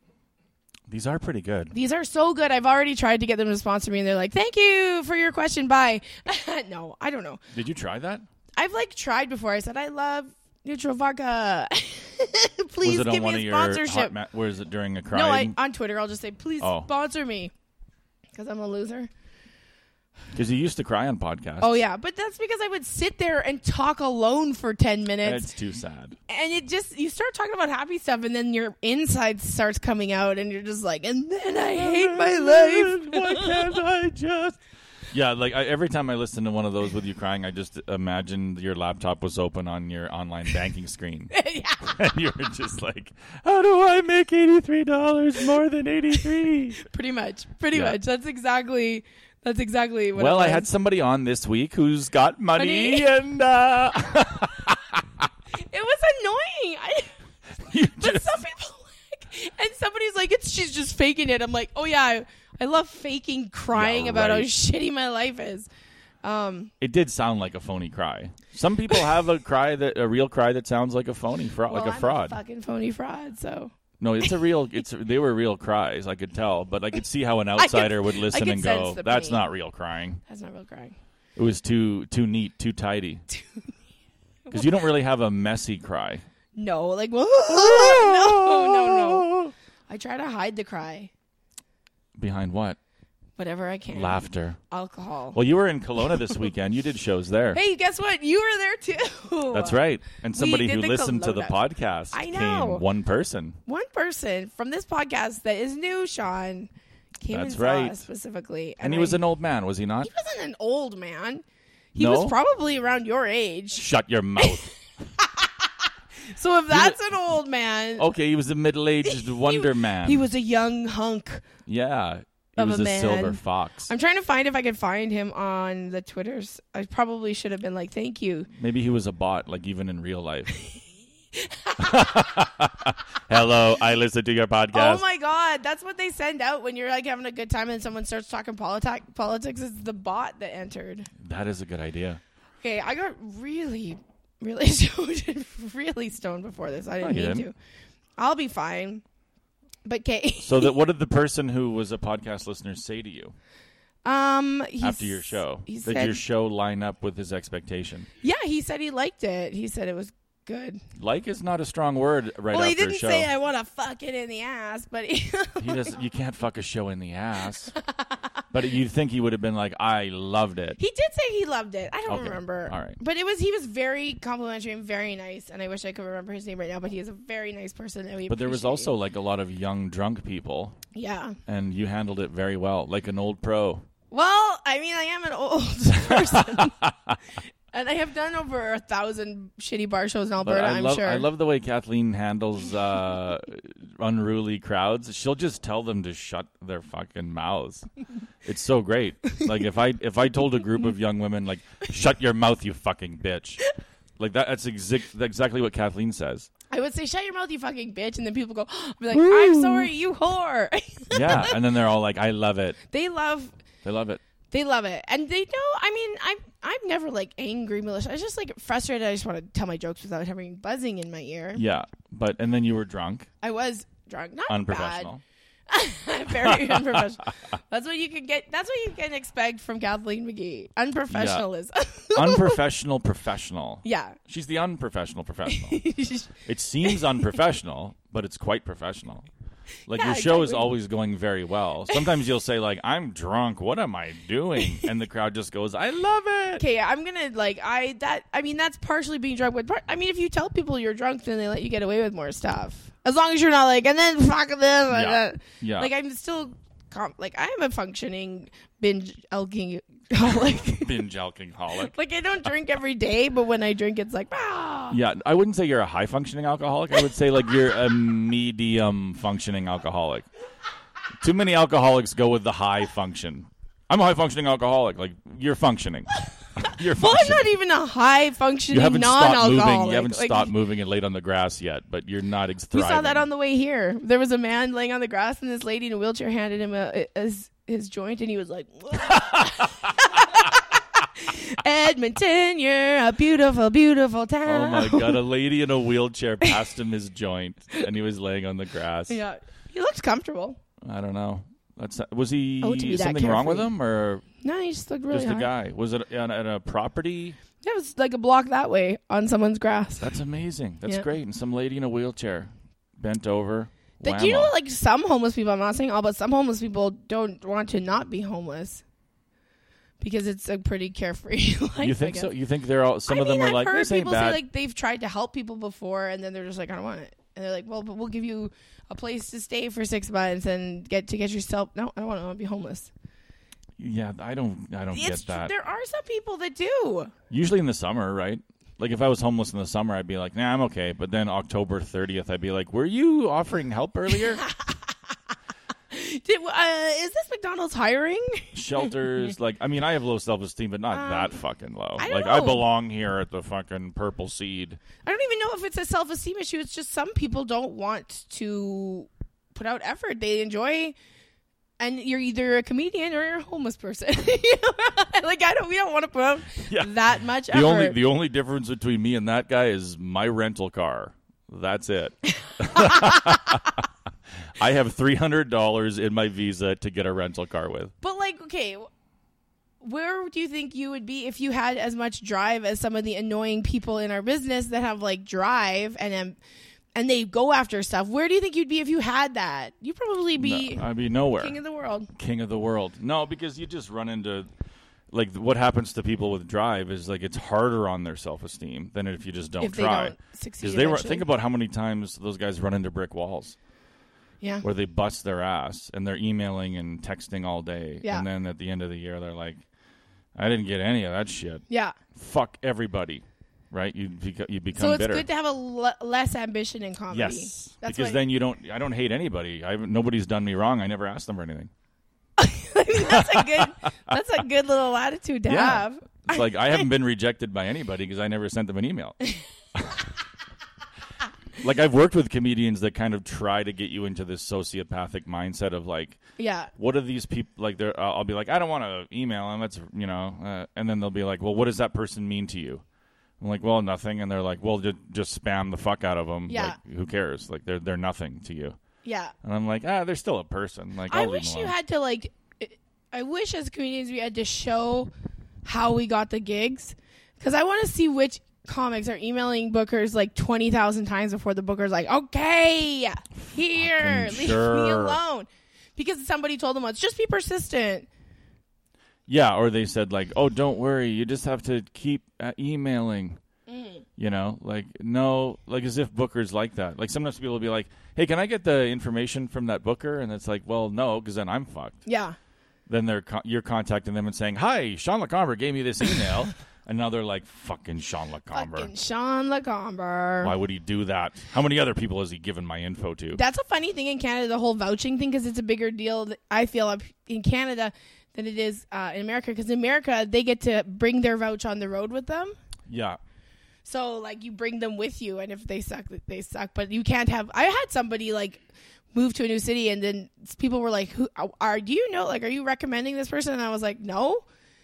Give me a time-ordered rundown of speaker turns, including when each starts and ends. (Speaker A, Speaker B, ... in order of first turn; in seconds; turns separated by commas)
Speaker A: 0.9-1.7, Speaker B: 1.7-7.4, Speaker A: 7.5-8.2, Speaker B: 8.6-14.2, Speaker A: 12.8-15.6, Speaker B: 15.1-17.5, Speaker A: 16.6-16.9, Speaker B: 18.4-19.1, Speaker A: 20.3-21.8, Speaker B: 21.6-25.5, Speaker A: 25.2-26.2, Speaker B: 26.3-33.7, Speaker A: 31.8-34.6, Speaker A: 35.1-41.3, Speaker B: 41.3-42.0, Speaker A: 41.8-46.9, Speaker B: 46.8-50.7, Speaker A: 47.7-48.0, Speaker A: 50.1-55.3, Speaker B: 52.6-53.1, Speaker B: 55.6-57.1, Speaker A: 57.7-58.4, Speaker B: 57.9-65.7, Speaker A: 63.7-64.5, Speaker B: 66.2-66.7, Speaker A: 66.8-72.4, Speaker B: 71.7-73.7, Speaker A: 74.0-80.2, Speaker B: 77.6-79.4, Speaker B: 80.3-81.0, Speaker A: 81.4-83.2, Speaker B: 83.3-83.6, Speaker A: 84.5-86.2, Speaker B: 86.6-91.1, Speaker A: 87.5-89.5, Speaker A: 92.2-92.8, Speaker B: 93.4-95.4, Speaker A: 93.9-94.6, Speaker A: 95.3-97.6, Speaker B: 97.5-99.8, Speaker A: 99.5-103.6, Speaker B: 100.3-101.6, Speaker B: 102.1-102.8, Speaker B: 103.7-109.2, Speaker A: 107.3-108.0, Speaker A: 108.8-110.1, Speaker B: 110.0-111.4, Speaker B: 112.0-113.9, Speaker A: 112.0-112.3, Speaker A: 113.8-114.7, Speaker B: 115.2-115.7, Speaker B: 116.3-118.1, Speaker A: 116.7-117.0, Speaker A: 118.0-120.3, Speaker B: 119.0-121.5, Speaker A: 121.7-123.9, Speaker B: 122.6-128.5, Speaker A: 128.6-130.6, Speaker B: 131.3-132.6, Speaker A: 131.8-135.0, Speaker B: 134.7-141.1, Speaker A: 141.2-142.2, Speaker B: 142.6-147.5, Speaker A: 147.0-147.5, Speaker B: 148.2-149.0, Speaker B: 149.8-150.8, Speaker A: 150.4-153.3, Speaker B: 154.1-156.2, Speaker A: 154.8-158.1, Speaker B: 158.2-160.8, Speaker A: 161.0-163.3, Speaker B: 162.5-166.0, Speaker A: 165.6-167.7, Speaker B: 167.8-168.4, Speaker A: 168.5-170.8, Speaker B: 170.8-178.9, Speaker A: 172.1-173.0, Speaker A: 178.3-180.8, Speaker B: 180.9-181.4, Speaker A: 181.5-183.8, Speaker B: 184.1-186.8, Speaker A: 186.1-187.2, Speaker B: 187.7-191.3, Speaker A: 190.4-197.9, Speaker A: 198.4-203.6, Speaker A: 204.2-206.5, Speaker B: 206.7-211.6, Speaker A: 209.1-209.9, Speaker A: 211.1-212.8, Speaker B: 212.9-213.6, Speaker A: 213.8-214.2, Speaker B: 214.5-221.6, Speaker A: 221.6-223.3, Speaker B: 223.4-225.1, Speaker A: 224.5-225.2, Speaker B: 225.7-232.6, Speaker A: 226.4-227.0, Speaker A: 231.1-231.5, Speaker A: 232.2-235.8, Speaker B: 233.8-234.2, Speaker B: 235.5-236.3, Speaker A: 236.4-239.3, Speaker A: 239.9-246.6, Speaker B: 239.9-240.7, Speaker B: 246.6-261.0, Speaker A: 254.9-255.9, Speaker A: 260.5-261.9, Speaker B: 261.7-265.0, Speaker A: 264.9-270.3, Speaker A: 271.2-277.5, Speaker B: 276.7-280.5, Speaker A: 278.7-283.3, Speaker B: 282.7-295.2, Speaker A: 294.4-299.2, Speaker B: 299.1-300.6, Speaker A: 300.8-304.2, Speaker B: 302.6-303.7, Speaker B: 304.4-305.5, Speaker A: 305.1-307.4, Speaker B: 307.6-310.1, Speaker A: 310.0-314.5, Speaker B: 314.0-318.8, Speaker B: 320.0-322.3, Speaker A: 321.8-324.4, Speaker B: 323.1-332.9, Speaker A: 333.8-335.5, Speaker B: 334.9-337.1, Speaker A: 337.3-344.4, Speaker B: 344.4-344.9, Speaker B: 345.9-349.0, Speaker A: 348.5-354.8, Speaker B: 350.9-351.3, Speaker B: 352.0-352.6, Speaker B: 355.0-361.0, Speaker B: 361.8-368.0, Speaker A: 366.6-373.9, Speaker B: 372.4-373.8, Speaker A: 374.6-377.9, Speaker B: 378.0-378.9, Speaker B: 379.8-386.4, Speaker B: 387.0-390.9, Speaker A: 390.4-391.6, Speaker B: 391.4-392.1, Speaker A: 392.1-394.5, Speaker A: 395.1-403.6, Speaker B: 399.6-401.3, Speaker A: 404.6-409.6, Speaker A: 410.4-415.3, Speaker B: 411.7-412.0, Speaker B: 414.8-418.2, Speaker A: 417.1-421.7, Speaker B: 422.4-426.9, Speaker A: 423.0-423.9, Speaker A: 425.5-429.2, Speaker A: 429.8-430.1, Speaker A: 431.6-436.2, Speaker B: 436.4-436.7, Speaker A: 436.8-442.8, Speaker A: 443.4-448.8, Speaker B: 446.5-446.8, Speaker B: 449.0-449.3, Speaker A: 449.4-451.8, Speaker B: 451.1-455.1, Speaker B: 455.6-468.1, Speaker A: 463.4-465.2, Speaker A: 469.3-473.4, Speaker B: 473.7-474.0, Speaker A: 474.2-482.0, Speaker B: 482.1-482.4, Speaker A: 482.9-488.9, Speaker B: 488.5-490.5, Speaker A: 490.4-493.4, Speaker B: 493.3-502.6, Speaker A: 502.9-503.2, Speaker B: 503.9-514.4